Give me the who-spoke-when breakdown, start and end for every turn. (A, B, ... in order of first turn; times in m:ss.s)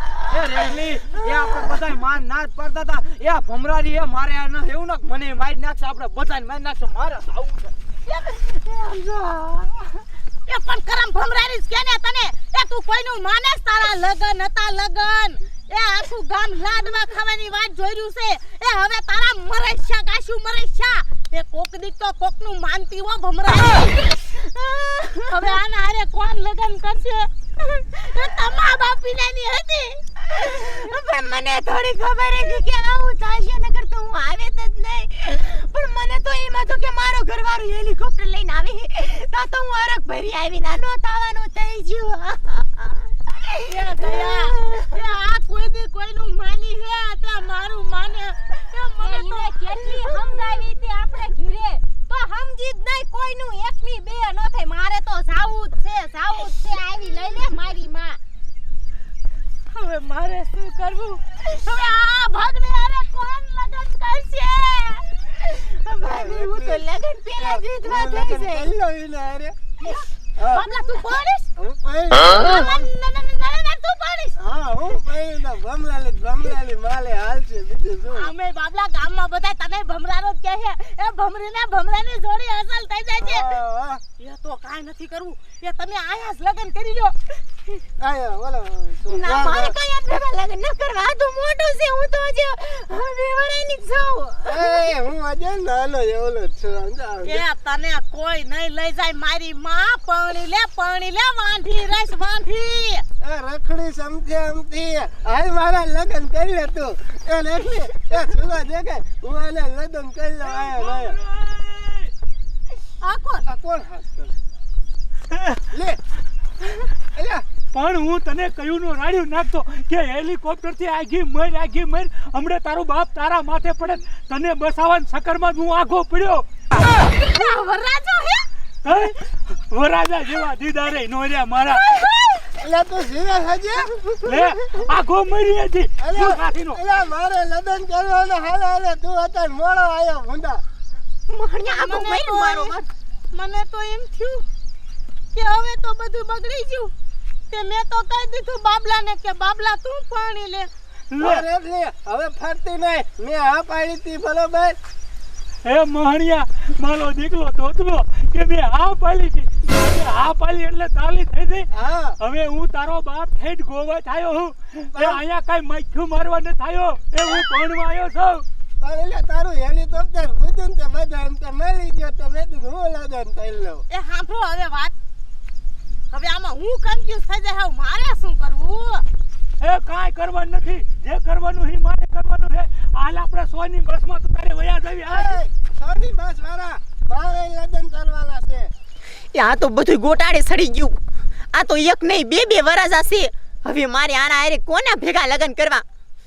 0:00.3-0:07.7 A
0:08.1-0:09.8 B
0:10.4-0:24.0 C
0:23.4-0:25.6 B
0:25.3-0:30.0 C
0:30.2-0:44.9 B
0:43.7-0:50.7 C
0:49.0-0:58.2 D
0:54.8-0:57.6 C
0:59.7-1:05.2 C
1:05.3-1:08.7 B
1:06.0-1:06.8 E
1:07.4-1:09.7 E
1:09.8-1:11.4 C
1:10.4-1:10.7 E
1:10.8-1:11.0 B
1:11.6-1:12.9 E
1:12.2-1:14.3 C
1:14.4-1:18.3 E
1:18.1-1:23.6 C
1:23.2-1:24.0 E
1:24.2-1:27.8 C
1:28.0-1:29.7 E
1:29.1-1:34.8 B
1:34.4-1:37.4 E
1:37.2-1:43.0 C
1:43.2-1:51.2 E
1:50.4-1:52.1 F
1:53.0-1:53.4 C
1:53.4-1:54.4 E
1:55.3-1:55.6 F
1:55.7-1:56.0 E
1:57.0-1:57.4 E
1:57.7-2:06.9 F
2:06.8-2:08.4 C
2:08.8-2:11.9 F
2:11.9-2:12.4 C
2:12.6-2:14.5 E
2:14.2-2:16.8 F
2:16.0-2:20.6 E
2:21.3-2:22.9 B
2:21.7-2:22.8 C
2:23.3-2:24.4 C
2:25.3-2:26.9 C
2:27.5-2:30.7 C
2:31.1-2:31.4 F
2:31.2-2:34.8 E
2:35.6-2:48.4 F
2:41.7-2:42.2 E
2:44.9-2:45.2 E
2:48.8-2:53.8 E
2:53.9-2:54.9 C
2:56.1-2:59.0 C
2:59.6-3:05.4 F
3:05.1-3:08.7 E
3:09.3-3:11.0 B
3:11.5-3:15.8 B